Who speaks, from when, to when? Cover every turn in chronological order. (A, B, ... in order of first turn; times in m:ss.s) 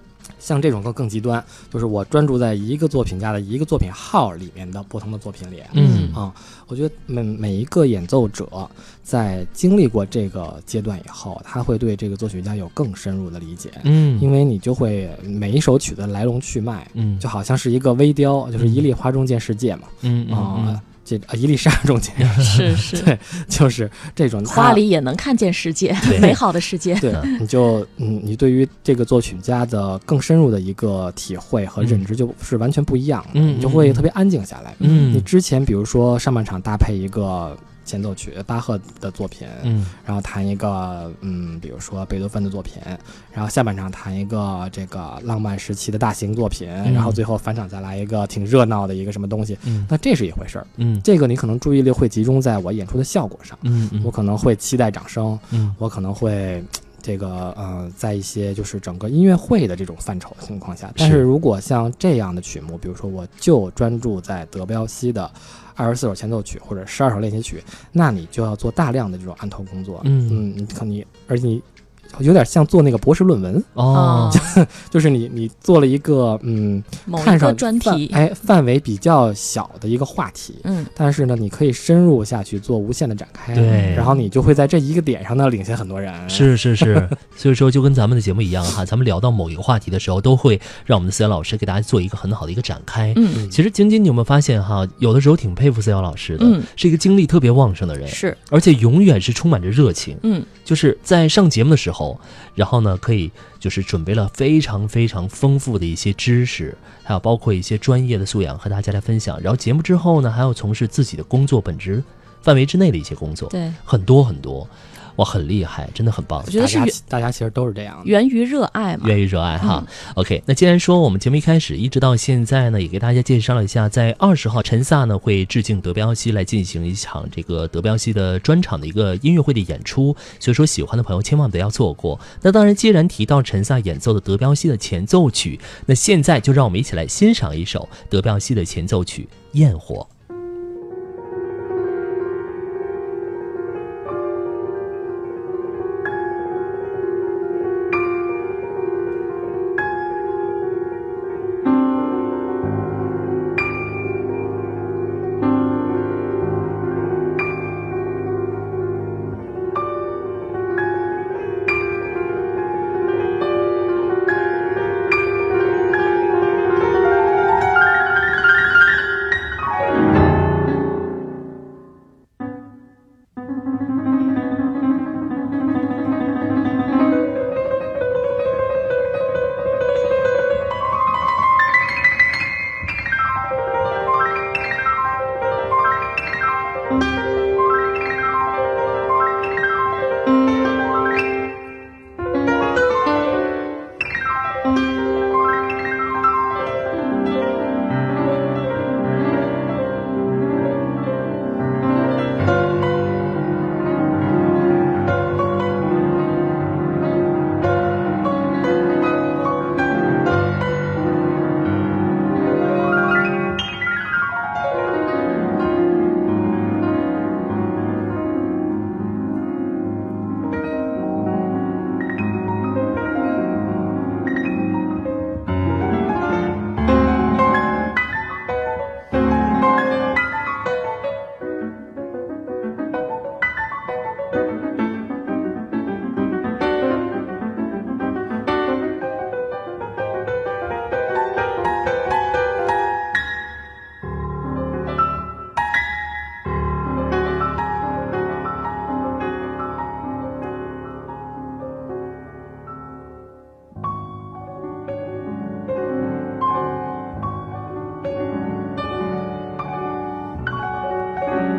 0:00.4-0:24.8 A
0:05.7-0:06.2 B
0:05.7-0:06.2 C
0:13.8-0:14.3 C
0:17.0-0:17.2 C
0:18.6-0:18.9 C
0:20.0-0:20.8 C
0:22.4-0:23.1 B
0:24.4-0:27.4 B
0:26.0-0:26.4 C
0:26.1-0:26.4 A
0:27.0-1:27.1 A
0:33.3-0:34.1 C
0:34.8-0:35.3 C
0:34.8-0:35.1 B
0:39.6-0:39.9 C
0:46.8-0:47.2 C
0:49.6-0:49.9 C
0:50.8-0:51.0 C
0:53.6-0:54.1 C
1:10.0-1:10.4 C
1:13.8-1:14.4 C
1:13.9-1:14.6 B
1:17.1-1:18.2 B
1:20.6-1:20.9 B
1:23.5-1:24.1 C
1:23.7-1:24.2 B
1:26.3-1:56.5 C
1:33.1-1:33.5 B
1:36.4-1:36.7 B
1:38.0-1:38.4 B
1:40.2-1:40.5 B
1:53.5-1:53.8 B
1:56.4-1:57.0 B
1:56.4-1:58.1 A
1:58.0-1:59.9 B
1:59.0-2:20.1 C